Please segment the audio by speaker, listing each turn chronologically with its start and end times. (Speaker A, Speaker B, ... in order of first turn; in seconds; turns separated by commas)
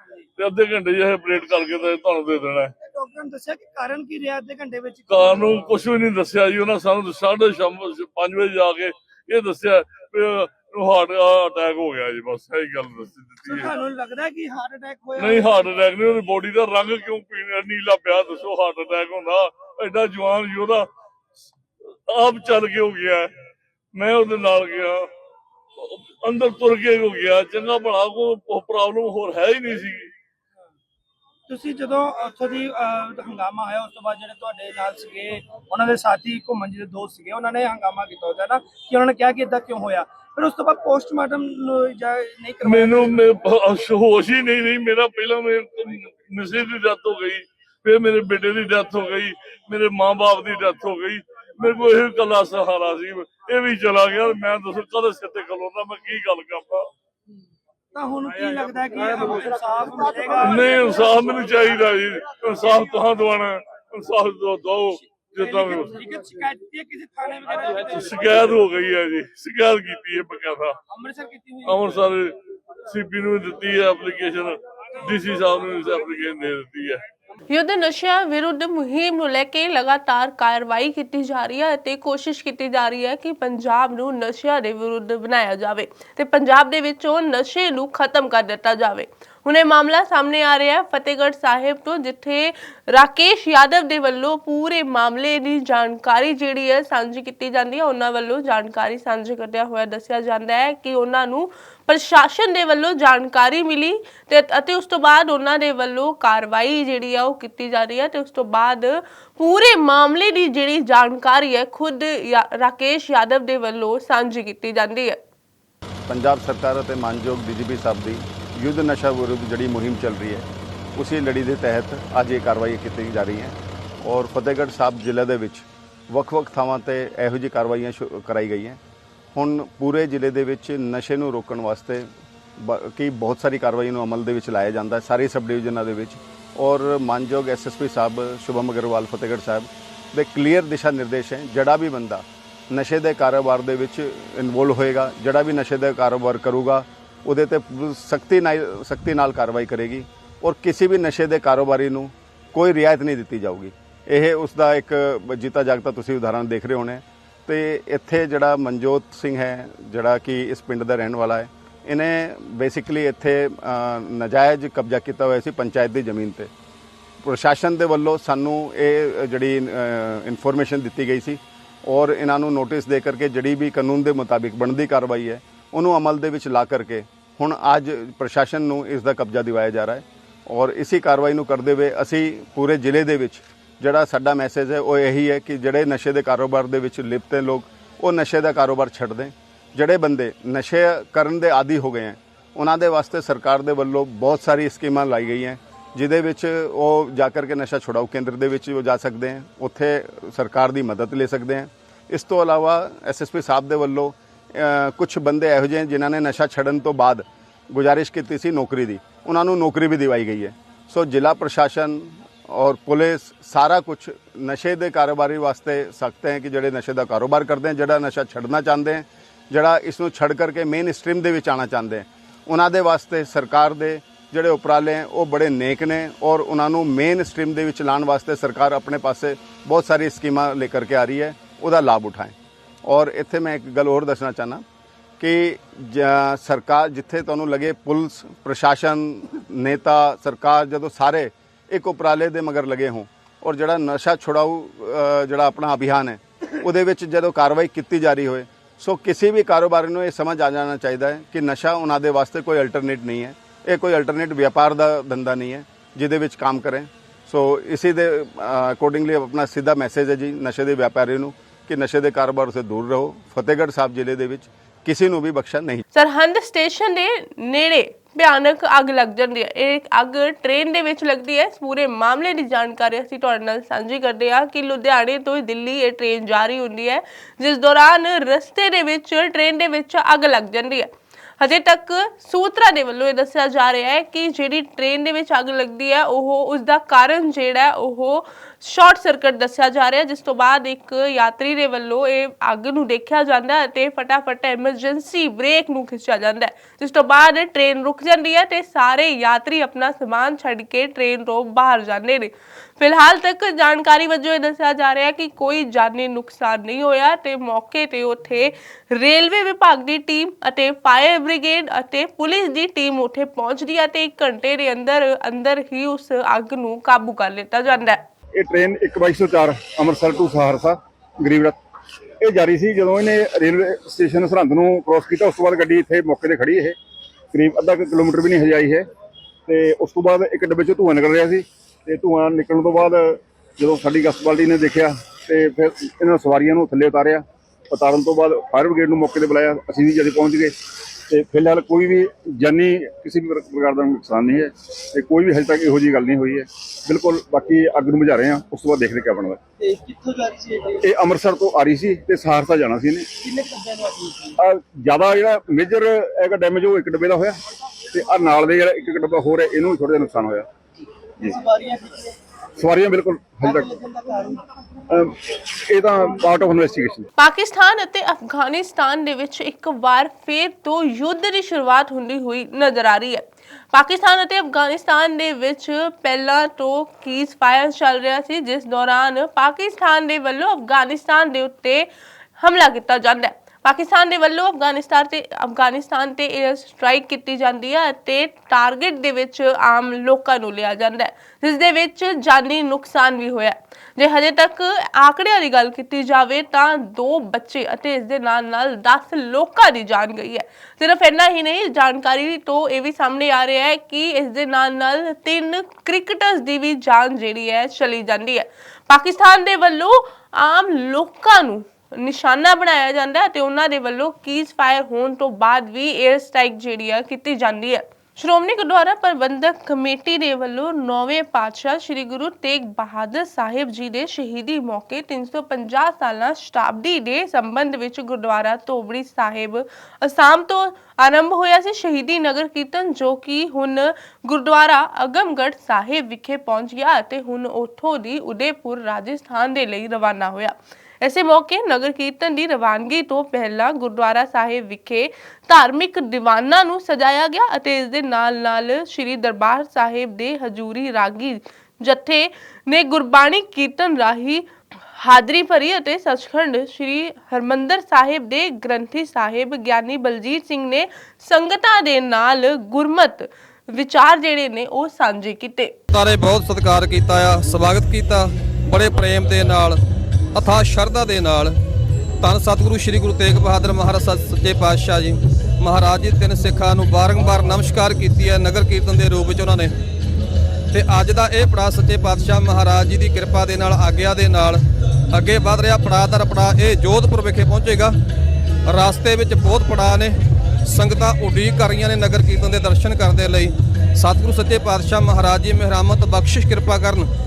Speaker A: 0.4-2.7, Speaker B: 2.8-5.7, Speaker A: 5.1-13.8, Speaker B: 13.5-15.6, Speaker A: 15.2-20.9, Speaker A: 22.1-23.3, Speaker A: 24.0-25.1, Speaker A: 25.8-30.1, Speaker B: 31.5-43.2, Speaker A: 42.6-56.9, Speaker B: 57.9-61.0, Speaker A: 60.4-66.0, Speaker B: 65.4-68.4, Speaker A: 67.8-70.8, Speaker B: 70.9-71.9, Speaker A: 71.7-72.3, Speaker A: 72.9-77.0, Speaker C: 77.5-115.2, Speaker D: 116.1-120.5, Speaker D: 121.0-128.8, Speaker D: 129.3-166.5, Speaker D: 167.2-234.6, Speaker D: 235.2-265.8, Speaker C: 265.9-318.0, Speaker E: 318.4-321.6, Speaker E: 322.2-326.8, Speaker E: 327.3-328.9, Speaker E: 329.5-349.4, Speaker E: 350.6-353.3, Speaker E: 354.3-357.4, Speaker E: 357.9-360.5, Speaker E: 361.2-361.7, Speaker E: 362.6-364.4, Speaker E: 364.9-367.1, Speaker C: 367.2-381.9, Speaker C: 382.4-465.8, Speaker F: 465.9-469.8, Speaker F: 470.4-471.6, Speaker F: 472.2-479.8, Speaker F: 480.7-484.6, Speaker F: 485.1-487.9, Speaker F: 488.7-490.1, Speaker F: 490.7-497.1